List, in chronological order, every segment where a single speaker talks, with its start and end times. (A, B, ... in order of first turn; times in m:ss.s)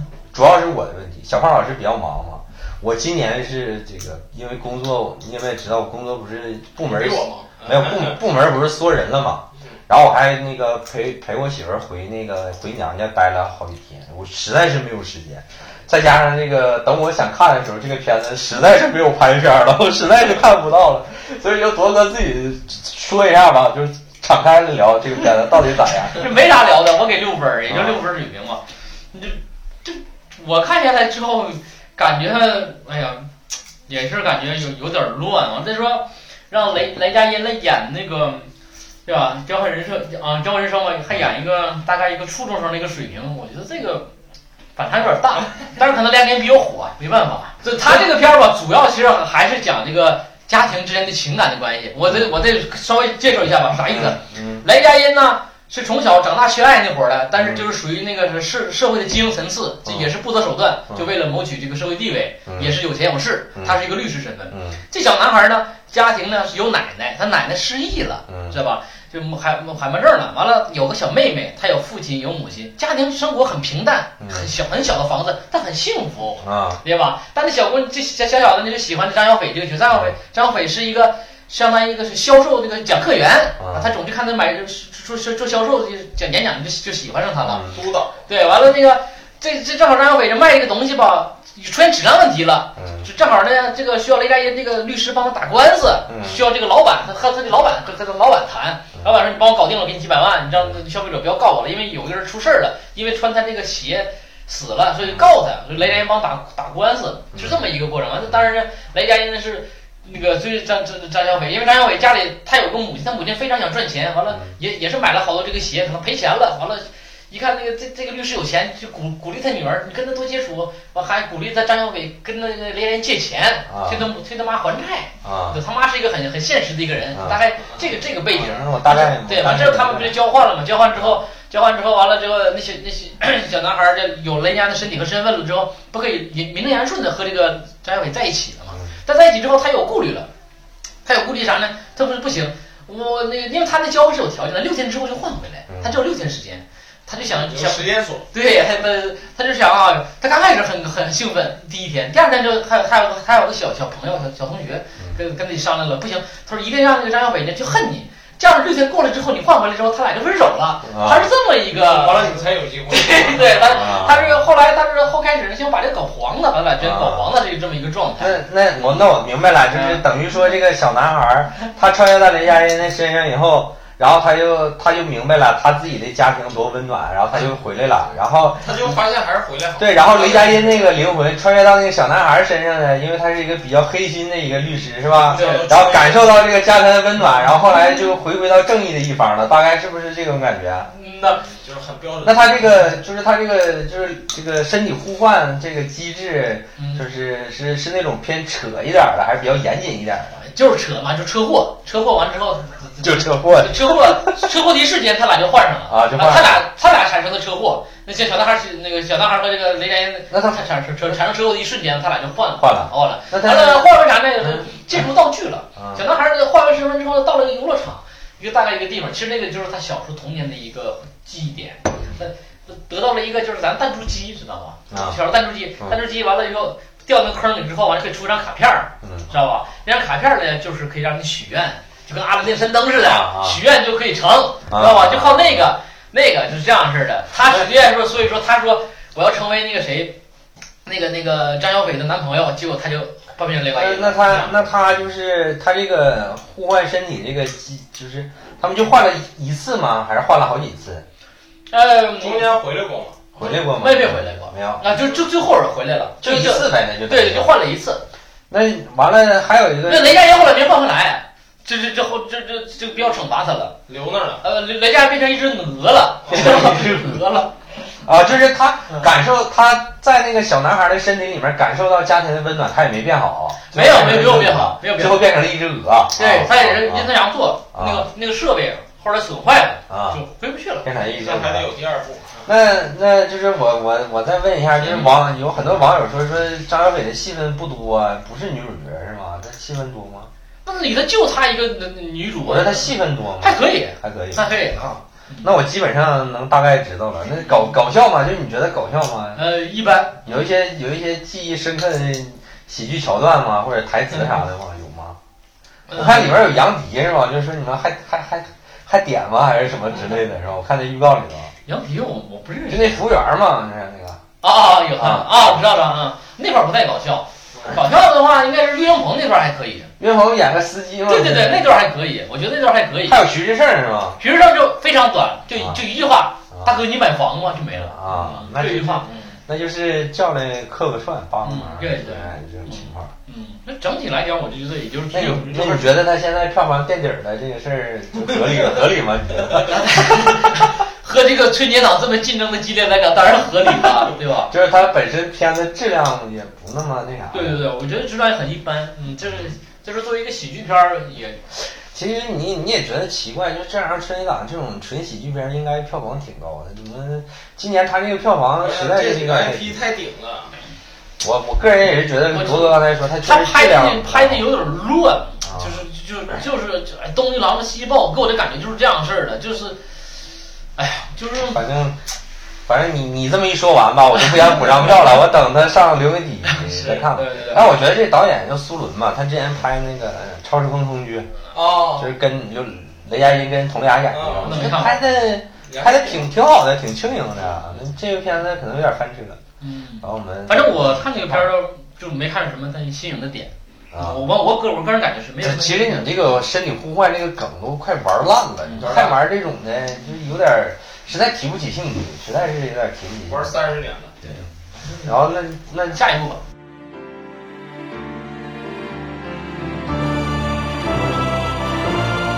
0:00.3-0:26.3 A
0:06.8-0:08.2 B
0:26.1-0:33.3 C
0:27.7-0:28.0 A
0:33.9-0:38.5 C
0:39.1-0:44.1 C
0:44.8-1:27.7 C
0:53.9-0:54.6 A
0:57.4-0:57.7 A
0:59.8-1:00.1 A
1:02.5-1:02.8 A
1:03.6-1:03.8 A
1:04.5-1:04.8 A
1:08.3-1:08.6 A
1:14.2-1:14.5 A
1:16.4-1:16.8 A
1:23.6-1:23.9 A
1:27.4-1:27.8 A
1:27.7-1:28.3 B
1:28.3-2:20.3 C
1:32.8-1:33.1 A
1:36.1-1:36.4 A
1:54.3-1:54.6 A
2:03.7-2:04.1 A
2:05.2-2:05.6 A
2:07.1-2:07.4 A
2:08.3-2:10.2 A
2:21.0-2:42.4 C
2:25.7-2:26.0 A
2:27.4-2:28.3 B
2:40.8-2:41.3 A
2:41.7-2:44.1 B
2:42.9-2:48.4 C
2:43.7-2:44.4 A
2:46.8-2:47.3 A
2:48.2-2:58.7 A
2:49.7-2:50.0 C
2:58.5-3:01.0 B
2:59.8-3:10.9 A
3:05.1-3:06.5 B
3:05.3-3:05.7 C
3:10.9-3:11.4 C
3:11.0-3:12.8 B
3:12.2-3:20.4 A
3:16.8-3:17.0 C
3:20.4-4:00.2 C
3:23.0-3:24.5 A
3:25.9-3:26.6 A
3:30.3-3:30.6 A
3:32.6-3:33.9 A
3:35.8-3:36.0 A
3:44.9-3:45.2 A
3:49.0-3:49.3 A
3:53.0-3:53.6 A
3:54.7-3:55.7 A
4:00.8-4:04.5 C
4:03.7-4:11.0 A
4:04.2-4:04.7 B
4:11.7-4:12.6 C
4:12.2-4:13.2 B
4:13.4-4:14.9 A
4:13.4-4:18.1 C
4:16.2-4:17.6 A
4:18.5-4:20.2 A
4:19.8-4:23.8 C
4:23.9-4:24.4 B
4:24.4-4:27.6 C
4:26.3-4:26.6 B
4:26.3-4:27.2 A
4:27.9-4:37.1 A
4:33.7-4:35.3 C
4:36.2-4:40.9 C
4:37.7-4:38.1 A
4:39.9-4:40.2 A
4:40.8-4:41.7 A
4:41.0-4:42.5 B
4:42.4-4:50.3 A
4:44.8-4:45.2 C
4:50.6-4:55.5 C
4:52.4-4:59.4 A
4:59.4-5:00.5 C
5:00.2-5:05.2 A
5:05.9-5:06.6 C
5:05.9-5:11.5 A
5:11.7-5:13.0 C
5:12.7-5:14.2 A
5:14.4-5:19.9 C
5:14.9-5:15.6 A
5:20.0-5:21.8 A
5:21.1-5:23.2 C
5:23.0-5:24.2 A
5:24.2-5:29.4 C
5:25.6-5:25.8 A
5:27.7-5:33.1 A
5:31.4-5:36.0 C
5:35.1-5:40.6 A
5:39.7-5:44.5 C
5:44.5-5:47.6 A
5:47.3-5:51.5 C
5:51.8-5:59.8 A
5:58.6-6:00.6 B
6:01.2-6:04.5 A
6:02.3-6:10.2 C
6:05.4-6:05.8 A
6:10.8-6:11.6 C
6:11.4-6:12.0 A
6:12.7-6:29.4 A
6:16.6-6:17.6 B
6:17.0-6:17.8 C
6:21.5-6:22.2 B
6:24.1-6:25.0 B
6:24.4-6:25.0 C
6:25.6-6:26.3 B
6:29.6-6:36.4 C
6:30.0-6:31.5 A
6:33.9-6:34.2 A
6:35.4-6:43.6 A
6:38.6-6:39.0 C
6:38.8-6:39.2 B
6:43.3-6:44.2 B
6:44.3-6:45.1 C
6:45.0-6:46.0 A
6:45.9-6:46.4 C